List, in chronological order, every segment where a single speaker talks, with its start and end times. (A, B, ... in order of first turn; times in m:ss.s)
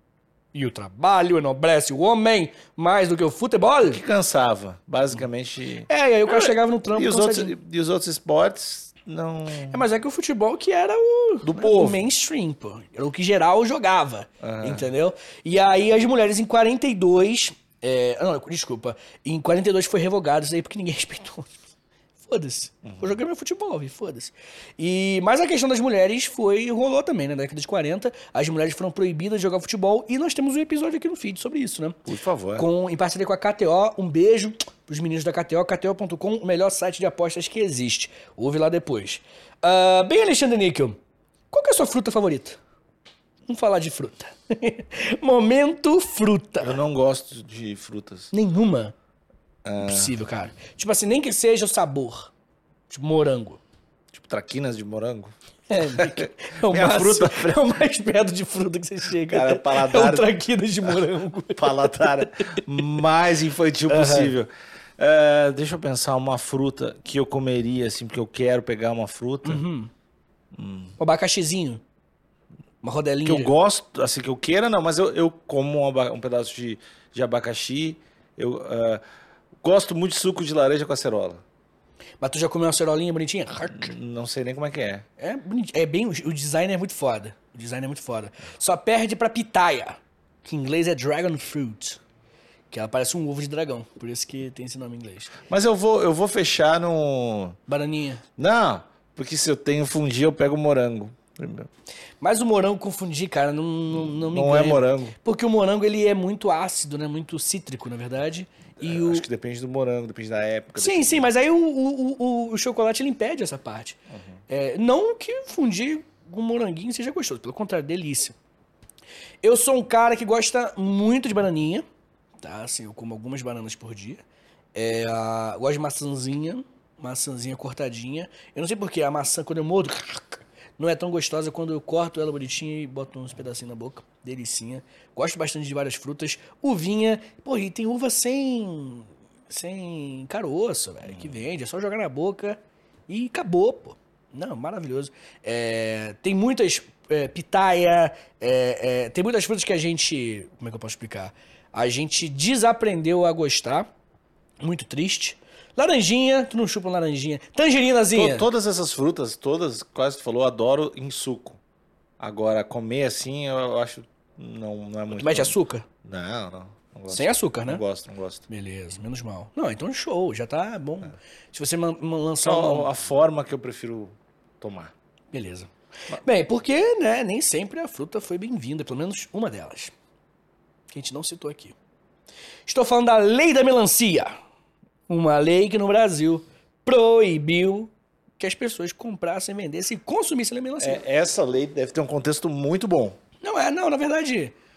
0:00.5-0:04.0 A
0:03.8-0:09.8 B
0:05.9-0:07.5 A
0:09.7-0:21.5 A
0:11.4-0:12.0 B
0:14.4-0:14.9 B
0:22.2-0:32.0 A
0:22.8-0:23.2 B
0:32.0-0:32.7 B
0:32.6-0:41.0 A
0:41.5-0:42.6 A
0:43.5-0:46.8 A
0:46.6-0:48.3 B
0:48.3-0:48.9 A
0:49.6-0:50.2 B
0:49.8-0:52.3 A
0:52.9-0:53.6 A
0:54.1-0:55.3 B
0:55.7-1:02.6 A
0:55.9-0:57.6 B
0:59.3-1:00.3 B
1:01.5-1:09.6 B
1:03.9-1:04.3 A
1:09.4-1:09.9 A
1:10.5-1:11.0 B
1:11.0-1:11.8 A
1:12.8-1:13.5 A
1:13.2-1:19.0 B
1:19.6-1:21.4 B
1:22.2-1:23.9 A
1:23.7-1:25.0 B
1:25.2-1:32.0 A
1:32.7-1:35.3 A
1:35.5-1:37.6 B
1:37.7-1:38.2 A
1:38.4-1:41.7 B
1:42.2-1:49.2 A
1:43.9-1:45.1 B
1:48.8-1:51.3 B
1:50.8-1:54.0 A
1:54.5-1:58.4 A
1:59.4-2:01.8 A
2:02.4-2:04.2 A
2:04.7-2:33.9 A
2:21.0-2:21.4 B
2:34.6-2:38.5 A
2:38.1-2:41.6 B
2:42.2-2:48.4 B
2:45.1-2:45.8 A
2:47.1-2:47.8 A
2:48.5-2:52.9 A
2:52.4-2:54.9 B
2:55.3-2:59.9 A
3:00.9-3:01.8 A
3:02.7-3:04.4 A
3:05.1-3:11.0 A
3:10.8-3:13.2 B
3:13.4-3:14.5 A